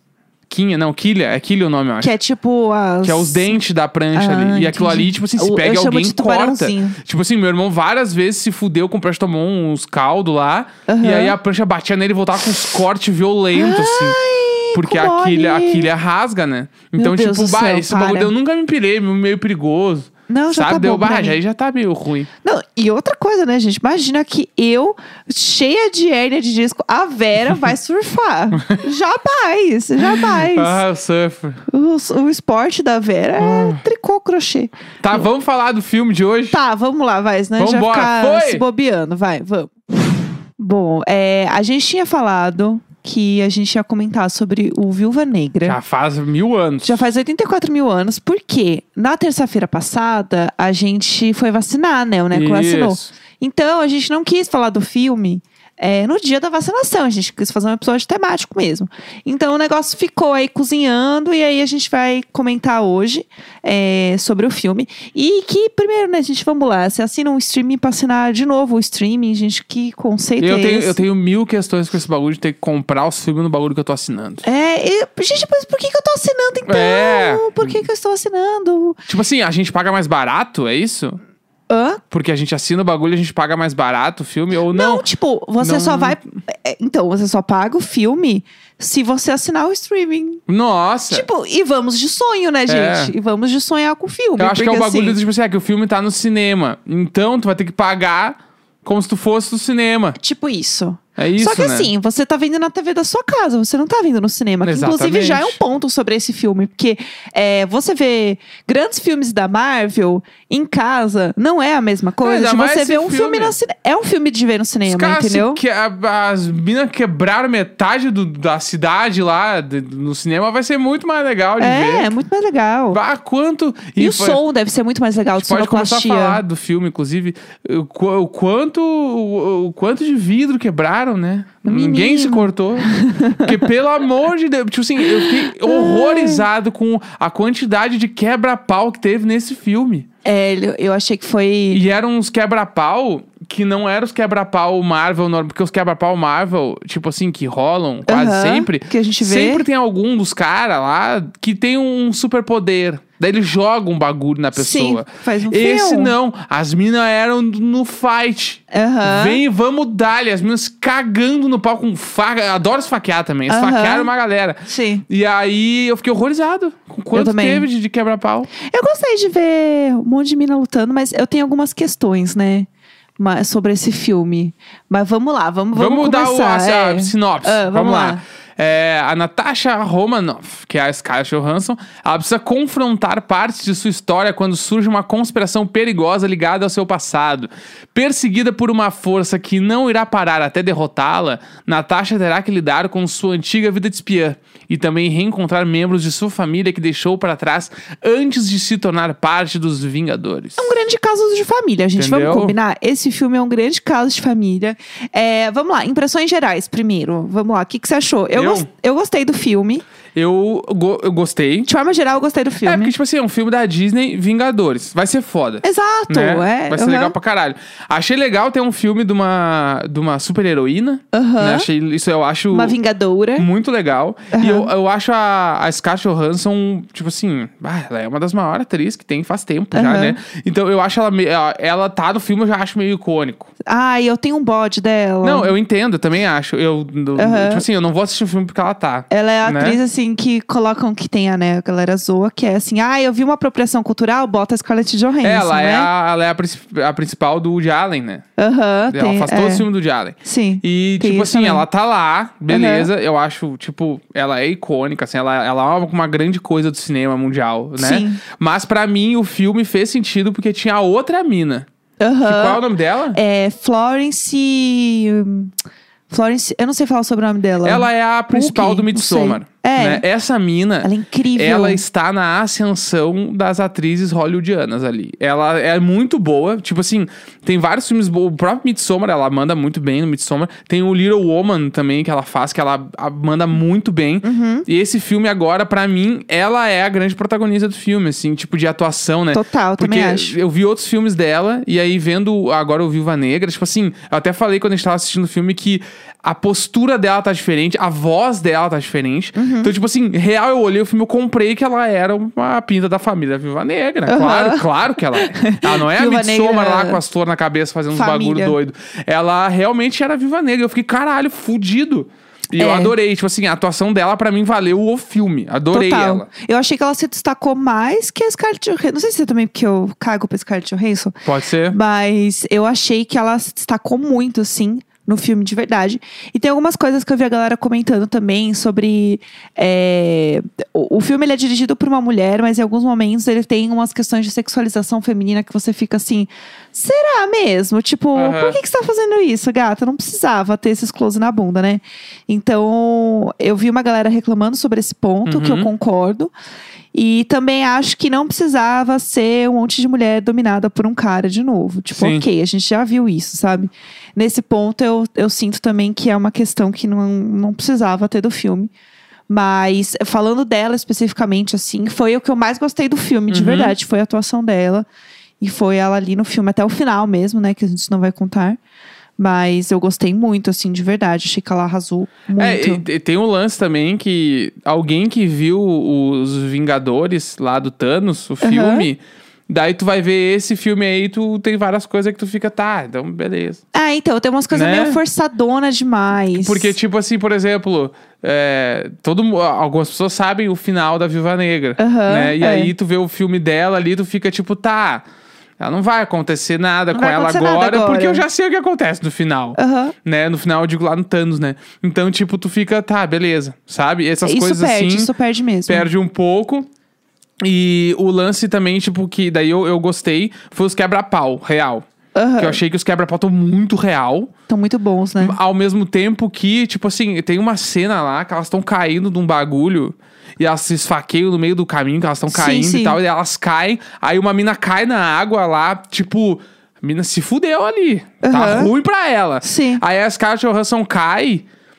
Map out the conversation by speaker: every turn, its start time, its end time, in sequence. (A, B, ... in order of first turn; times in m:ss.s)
0:00.5-0:02.1 A
0:02.0-0:03.6 B
0:03.0-0:14.2 A
0:04.1-0:07.0 B
0:10.9-0:11.4 B
0:13.5-0:15.9 B
0:14.7-0:22.3 A
0:17.0-0:18.3 B
0:20.3-0:21.4 B
0:22.4-0:30.8 B
0:28.6-0:28.8 A
0:30.0-0:31.6 A
0:31.7-0:35.3 B
0:33.4-0:33.8 A
0:35.0-0:36.6 A
0:36.5-0:39.8 B
0:37.6-0:38.6 A
0:40.6-0:45.8 B
0:45.6-0:47.0 A
0:46.8-1:11.0 B
0:52.3-0:53.1 A
1:10.4-1:14.4 A
1:14.4-1:19.0 B
1:16.7-1:17.8 A
1:19.1-1:21.2 A
1:21.7-1:22.0 B
1:22.1-1:25.0 A
1:24.7-1:30.4 B
1:25.6-1:26.2 A
1:30.5-1:31.2 A
1:31.1-1:35.2 B
1:32.7-1:33.1 A
1:34.4-1:40.2 A
1:40.2-1:55.6 B
1:41.2-1:41.9 A
1:44.6-1:45.6 A
1:52.2-1:53.5 A
1:54.8-2:02.1 A
2:01.6-2:03.0 B
2:02.9-2:04.4 A
2:04.0-2:06.4 B
2:05.4-2:20.1 A
2:11.6-2:13.7 B
2:15.0-2:16.4 B
2:20.2-2:21.8 B
2:21.7-2:48.5 A
2:28.0-2:29.6 B
2:34.6-2:36.1 B
2:38.7-2:39.4 B
2:43.5-2:44.1 B
2:44.6-2:45.0 B
2:47.1-2:47.7 B
2:48.6-2:58.2 B
2:55.7-3:20.7 A
3:20.6-3:29.8 B
3:22.0-3:22.6 A
3:28.3-3:28.7 A
3:30.1-3:31.7 A
3:31.6-3:32.9 B
3:32.6-3:42.8 A
3:35.6-3:37.2 B
3:41.1-3:41.7 B
3:42.5-3:43.5 B
3:43.4-3:53.5 A
3:44.3-3:44.7 B
3:49.7-3:50.2 B
3:53.6-3:55.5 B
3:55.2-3:59.8 A
3:57.2-3:57.6 B
3:59.1-4:05.9 B
4:05.2-4:08.2 A
4:08.4-4:09.7 B
4:08.9-4:21.7 A
4:10.2-4:11.6 B
4:12.5-4:12.9 B
4:17.8-4:18.2 B
4:22.0-4:22.6 B
4:22.2-4:23.2 A
4:23.1-4:25.5 B
4:26.1-4:30.0 B
4:27.6-5:16.3 A
4:30.8-4:31.8 B
4:44.2-4:44.6 B
4:49.3-4:50.4 B
4:59.3-4:59.7 B
5:04.0-5:07.0 B
5:07.9-5:08.6 B
5:12.6-5:12.9 B
5:15.7-5:46.3 B
5:21.2-5:21.8 A
5:38.1-5:38.6 A
5:45.3-5:45.7 A
5:46.9-5:58.7 B
5:51.9-5:52.2 A
5:59.3-6:04.8 B
6:03.3-6:03.8 A
6:05.4-6:08.6 B
6:09.2-6:12.8 B
6:12.4-6:23.6 A
6:18.4-6:18.9 B
6:23.7-6:26.7 B
6:24.5-6:25.0 A
6:26.3-6:35.0 A
6:31.8-6:32.7 B
6:35.6-6:45.1 A
6:36.9-6:38.2 B
6:39.6-6:39.9 B
6:44.2-6:45.9 B
6:45.7-6:46.7 A
6:47.4-6:51.8 A
6:52.1-6:52.6 B
6:52.4-6:54.3 A
6:54.5-6:55.4 B
6:55.2-7:11.4 A
7:02.3-7:03.0 B
7:08.2-7:08.7 B
7:09.4-7:09.8 B